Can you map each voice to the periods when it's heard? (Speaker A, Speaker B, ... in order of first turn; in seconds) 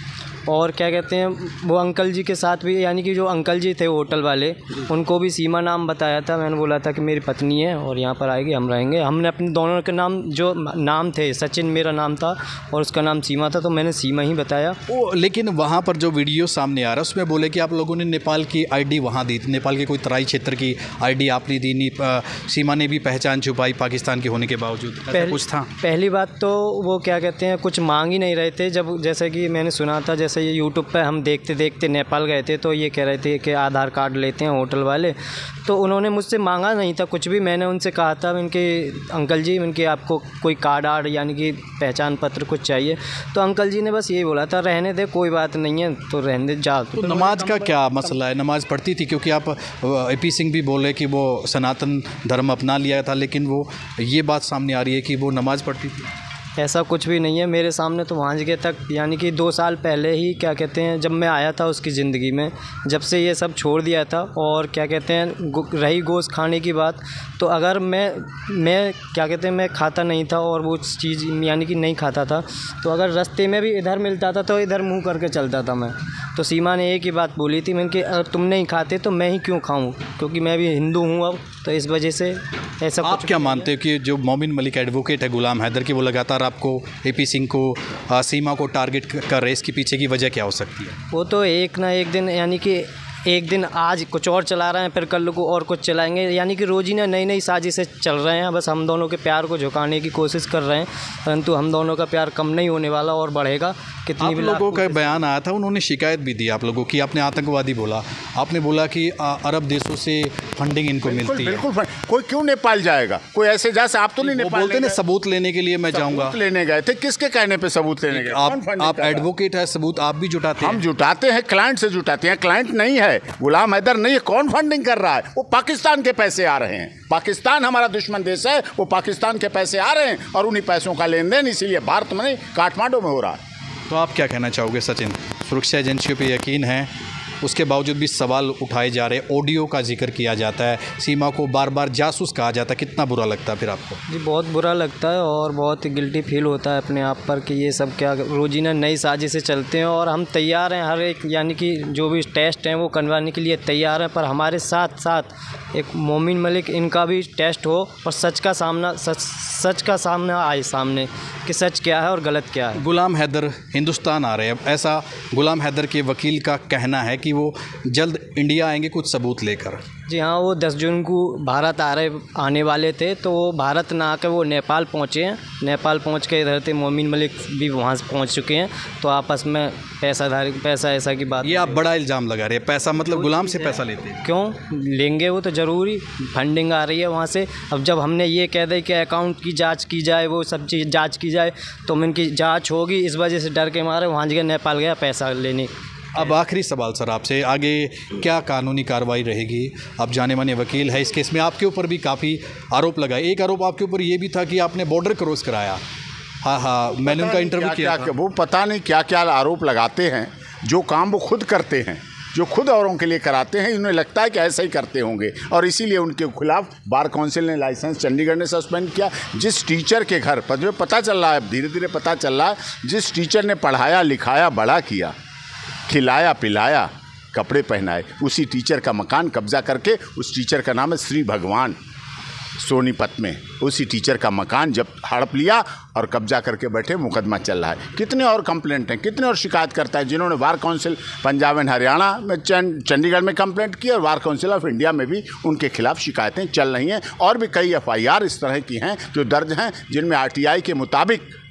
Speaker A: 0.5-14.8, 25.1-47.9, 56.6-83.7, 91.1-105.2, 144.1-162.8, 170.1-181.8, 184.2-195.7
Speaker B: 14.9-25.7, 46.9-56.0, 83.0-90.9, 104.2-111.6, 114.2-116.4, 118.1-120.8, 133.9-136.9, 137.4-144.0, 162.7-169.8, 181.4-184.2, 196.1-205.8, 206.4-208.1
Speaker C: 111.0-115.0, 115.9-119.3, 120.6-133.4, 207.0-225.1, 225.9-231.8, 232.6-251.3